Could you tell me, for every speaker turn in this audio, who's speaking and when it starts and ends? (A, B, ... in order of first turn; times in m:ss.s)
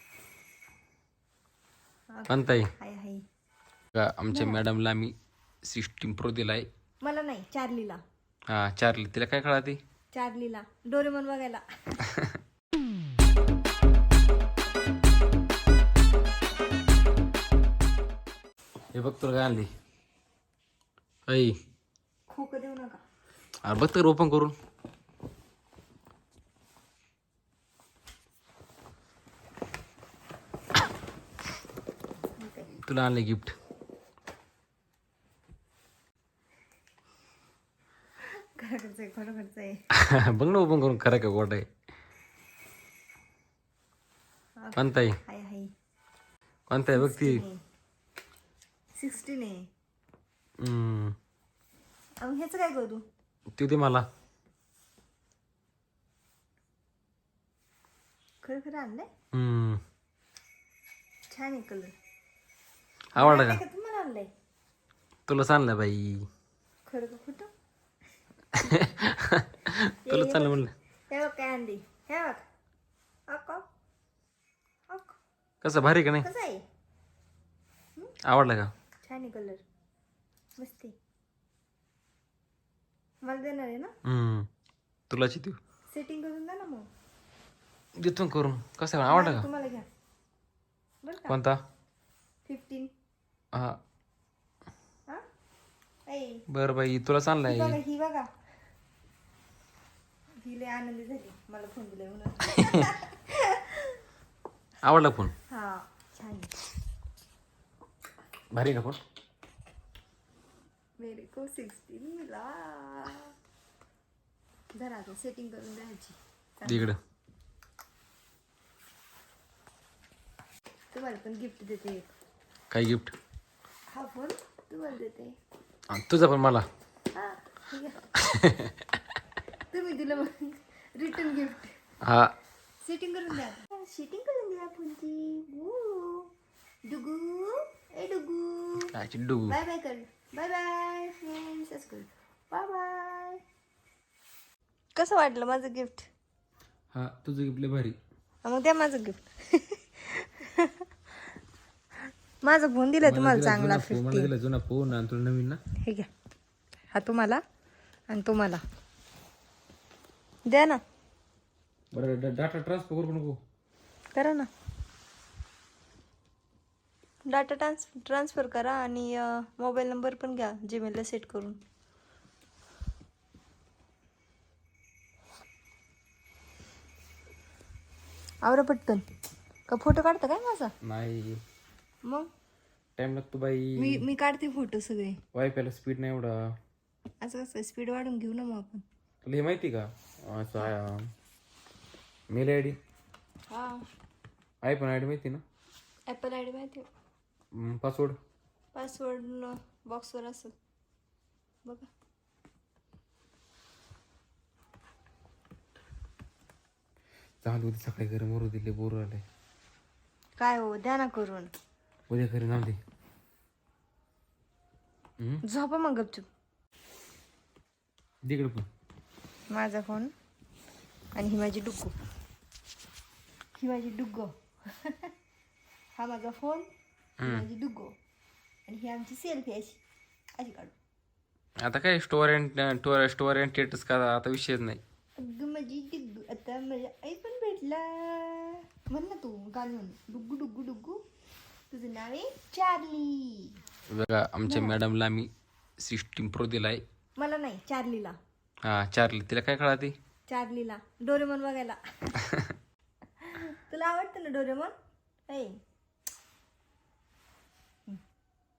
0:02.1-0:03.2 A
0:02.3-0:02.7 B
0:03.9-0:06.7 B
0:04.3-0:04.6 A
0:07.0-0:08.0 A
0:08.5-0:09.8 B
0:10.1-0:12.0 A
0:18.9-0:19.7 B
0:21.3-0:21.5 B
0:22.3-0:23.0 A
0:23.6-0:24.5 B
0:32.4-0:32.7 A
0:32.8-0:33.5 B
0:38.3-0:39.8 A
0:39.9-0:41.6 B
0:44.6-0:45.7 A
0:44.7-0:45.2 B
0:46.7-0:47.4 B
0:46.9-0:47.6 A
0:48.9-0:49.7 A
0:50.6-0:51.1 B
0:52.2-0:53.0 A
0:53.5-0:54.0 B
0:58.4-0:59.1 A
0:59.3-0:59.8 B
1:01.3-1:01.9 A
1:03.1-1:03.6 B
1:03.2-1:04.3 A
1:05.3-1:06.3 B
1:06.8-1:07.5 A
1:08.5-1:10.7 B
1:10.0-1:12.4 A
1:13.3-1:13.6 A
1:14.9-1:15.2 A
1:15.6-1:16.3 B
1:16.2-1:16.6 A
1:18.2-1:18.7 B
1:19.0-1:19.6 A
1:20.6-1:20.9 A
1:23.2-1:23.9 A
1:24.0-1:24.5 B
1:25.1-1:25.6 B
1:25.9-1:26.9 A
1:28.0-1:29.5 B
1:29.1-1:29.8 A
1:31.0-1:31.4 A
1:31.3-1:31.6 B
1:32.4-1:32.9 A
1:36.1-1:36.4 A
1:36.5-1:37.8 B
1:37.4-1:38.3 A
1:40.4-1:44.0 A
1:44.8-1:45.3 B
1:45.5-1:46.5 A
1:48.5-1:49.0 B
1:51.0-1:53.3 A
1:54.7-1:56.9 A
1:56.6-1:57.0 B
2:00.9-2:02.1 A
2:02.7-2:03.1 B
2:03.9-2:05.4 A
2:05.9-2:06.6 B
2:07.1-2:08.1 A
2:08.2-2:08.8 B
2:09.7-2:11.8 A
2:12.0-2:12.3 B
2:12.8-2:16.3 A
2:16.9-2:18.9 A
2:18.8-2:19.6 B
2:19.5-2:23.4 A
2:24.9-2:26.1 A
2:26.9-2:28.0 B
2:28.4-2:30.8 A
2:32.4-2:34.3 A
2:33.0-2:35.6 B
2:35.8-2:36.1 A
2:36.9-2:37.4 A
2:38.1-2:38.6 A
2:40.5-2:40.8 A
2:41.9-2:43.4 B
2:44.1-2:44.5 A
2:47.3-2:51.6 A
2:58.4-2:59.1 A
2:59.7-3:00.7 A
3:00.8-3:01.4 B
3:03.0-3:04.0 B
3:03.8-3:05.2 A
3:05.3-3:06.4 B
3:07.2-3:08.8 A
3:09.2-3:11.1 B
3:12.3-3:12.8 B
3:13.5-3:13.8 A
3:14.6-3:15.4 B
3:16.1-3:16.9 A
3:17.5-3:18.2 B
3:18.7-3:20.5 A
3:27.4-3:29.2 B
3:30.4-3:31.5 A
3:32.1-3:32.8 B
3:35.4-3:36.3 A
3:38.2-3:38.6 B
3:39.5-3:40.1 A
3:41.1-3:41.9 A
3:43.6-3:45.1 A
3:46.0-3:46.7 A
3:47.2-3:47.4 B
3:47.2-3:47.9 A
3:48.7-3:49.8 A
3:50.4-3:50.7 A
3:51.6-3:54.8 B
3:55.2-4:01.0 A
4:01.7-4:03.6 A
4:03.9-4:05.3 B
4:04.4-4:04.8 A
4:05.8-4:06.8 B
4:07.2-4:08.2 A
4:08.6-4:09.9 B
4:10.3-4:12.1 A
4:12.2-4:12.5 B
4:13.2-4:14.7 A
4:15.3-4:15.6 A